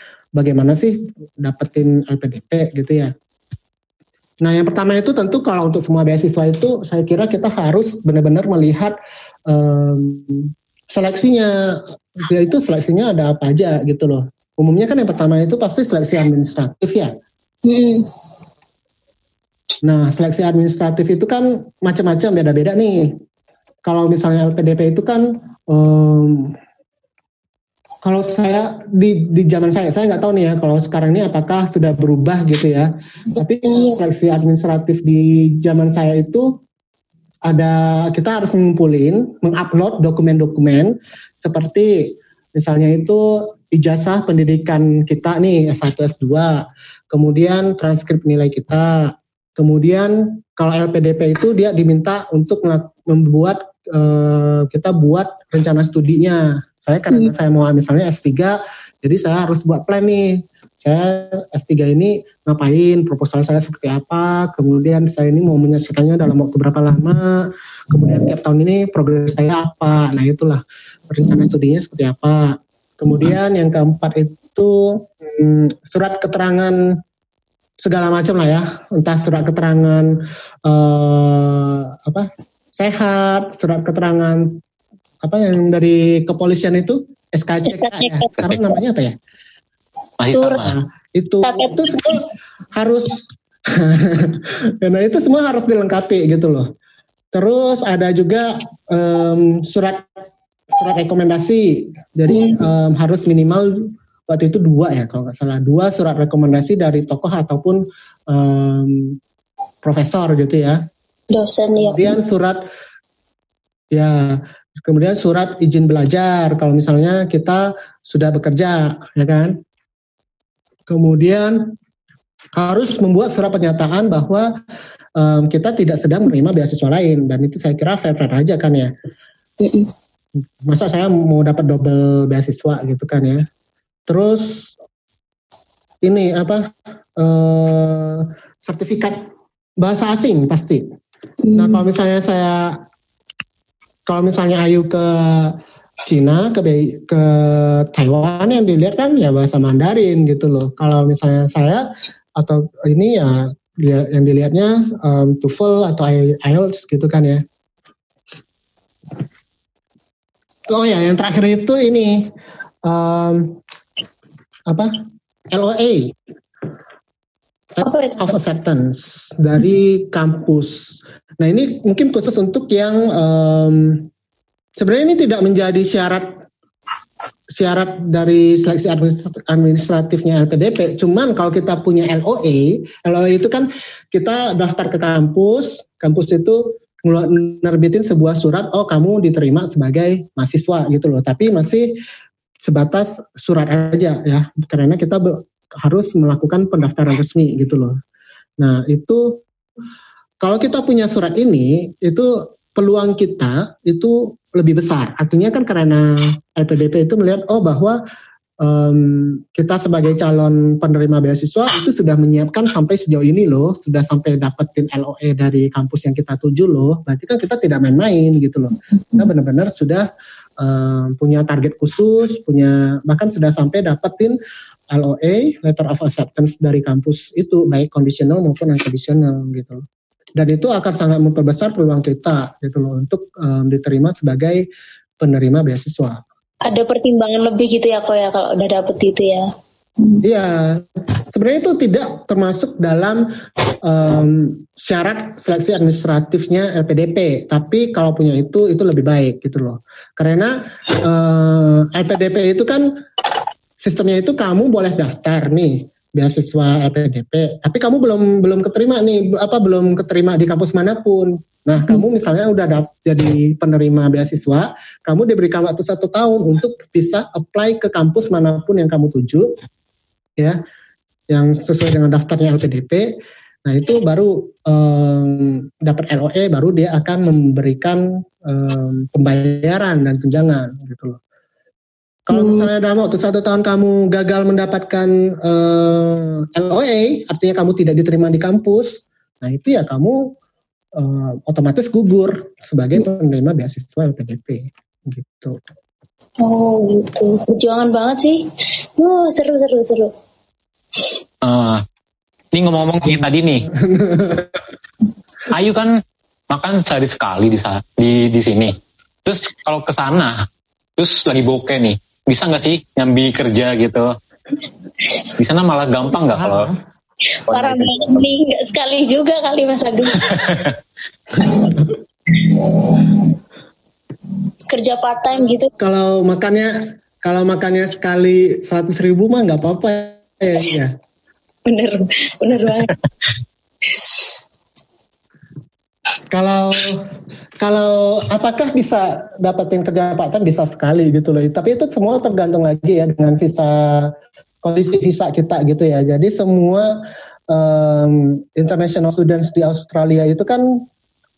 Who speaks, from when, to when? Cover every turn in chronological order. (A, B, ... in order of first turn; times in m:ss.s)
0:00.4-0:03.1 A
0:04.4-0:09.0 A
0:09.5-0:17.1 A
0:17.6-0:18.1 B
0:19.8-0:23.2 A
0:23.9-0:26.5 A
0:28.0-0:36.6 A
0:33.4-0:34.0 B
0:37.5-1:16.8 A
1:17.8-1:20.1 A
1:20.6-1:24.6 A
1:25.2-1:29.1 A
1:27.8-1:28.2 B
1:30.2-1:30.8 C
1:30.3-1:30.6 B
1:30.3-1:36.7 A
1:31.4-1:32.2 B
1:37.3-1:40.1 A
1:40.7-1:43.7 A
1:42.3-1:42.7 B
1:44.3-1:49.2 A
1:49.8-1:50.8 A
1:51.3-1:52.2 B
1:51.9-1:52.6 A
1:53.9-1:59.6 A
2:00.9-2:01.7 A
2:02.6-2:04.5 A
2:05.2-2:08.9 A
2:09.6-2:09.9 B
2:10.7-2:13.4 A
2:14.1-2:14.7 A
2:16.0-2:19.2 A
2:19.8-2:20.8 A
2:21.4-2:21.8 B
2:21.5-2:22.8 A
2:24.1-2:25.6 A
2:26.1-2:31.8 A
2:32.4-2:37.4 A
2:40.7-2:42.3 A
2:42.9-2:43.6 A
2:44.7-2:44.9 A
2:45.5-2:46.2 A
2:47.8-2:54.1 A
2:47.8-2:48.3 B
2:54.8-2:56.3 A
2:57.5-3:11.9 A
3:12.6-3:17.9 A
3:18.6-3:19.4 A
3:20.4-3:28.0 A
3:28.6-3:40.1 A
3:38.9-3:39.3 B
3:40.6-3:44.4 A
3:44.9-3:49.8 A
3:50.4-3:54.6 A
3:55.2-3:56.2 A
3:56.6-4:00.2 B
4:00.2-4:03.2 A
4:03.8-4:12.9 A
4:13.8-4:29.5 A
4:21.8-4:22.1 B
4:31.3-4:33.1 A
4:33.6-4:41.2 A
4:42.3-4:50.3 A
4:42.3-4:42.6 B
4:51.0-4:55.6 A
4:56.4-5:00.1 B
5:01.4-5:01.8 C
5:02.5-5:03.7 C
5:03.7-5:04.6 A
5:05.5-5:05.9 C
5:06.5-5:10.4 C
5:11.0-5:14.1 C
5:15.4-5:16.7 C
5:16.2-5:16.8 A
5:17.4-5:20.5 B
5:17.5-5:18.2 C
5:20.3-5:20.7 C
5:21.4-5:21.8 A
5:22.3-5:23.4 B
5:24.7-5:25.7 B
5:25.8-5:30.9 A
5:31.6-5:32.9 B
5:33.9-5:34.3 B
5:36.3-5:37.1 A
5:37.6-5:46.9 A
5:47.5-5:50.8 A